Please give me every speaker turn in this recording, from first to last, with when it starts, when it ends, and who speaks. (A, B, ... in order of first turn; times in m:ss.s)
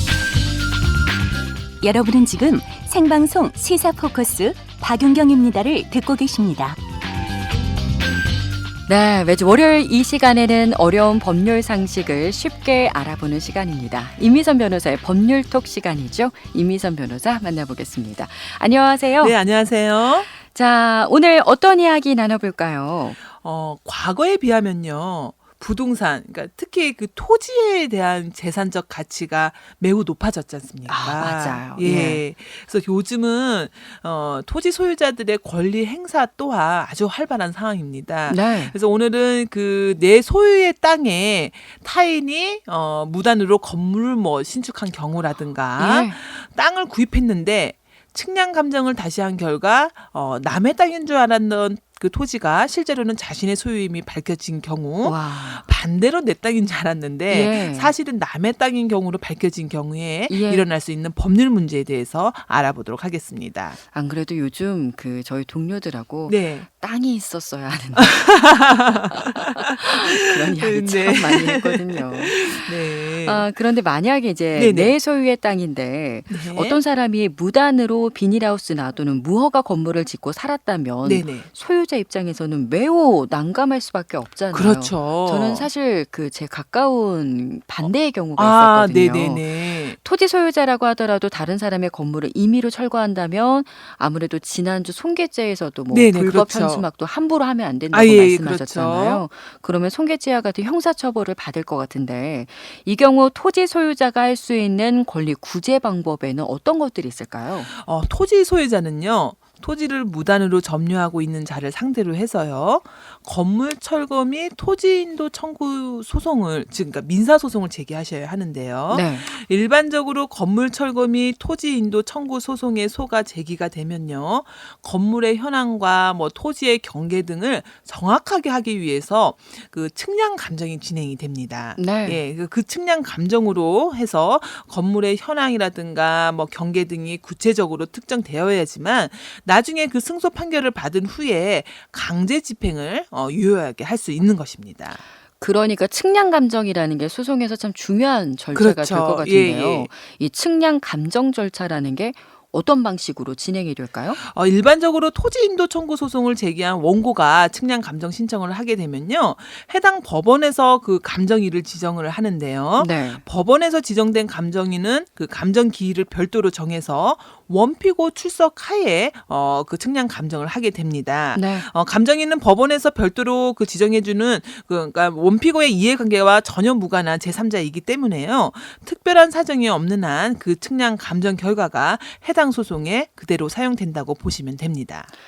0:01.8-0:06.8 A
0:08.9-0:19.4 B
0:19.2-0:20.3 C
0:20.3-0:23.2 B
0:23.3-1:03.8 C
0:30.9-0:32.2 B
0:38.3-0:38.8 B
0:45.8-0:46.2 B
0:55.0-0:55.6 B
0:57.3-0:57.9 B
1:00.3-1:00.6 B
1:03.9-1:08.3 B
1:06.3-1:06.7 C
1:08.0-1:13.4 C
1:09.1-1:47.7 B
1:14.5-1:14.9 C
1:16.3-1:16.8 C
1:21.0-1:21.5 C
1:24.5-1:25.7 C
1:28.4-1:30.0 C
1:35.9-1:36.8 C
1:37.9-1:39.2 C
1:47.7-2:25.0 C
1:58.9-1:59.3 B
2:11.8-2:12.2 B
2:25.4-2:34.2 B
2:28.5-2:29.9 C
2:34.2-3:05.1 C
2:42.8-2:43.2 B
2:51.3-2:51.7 B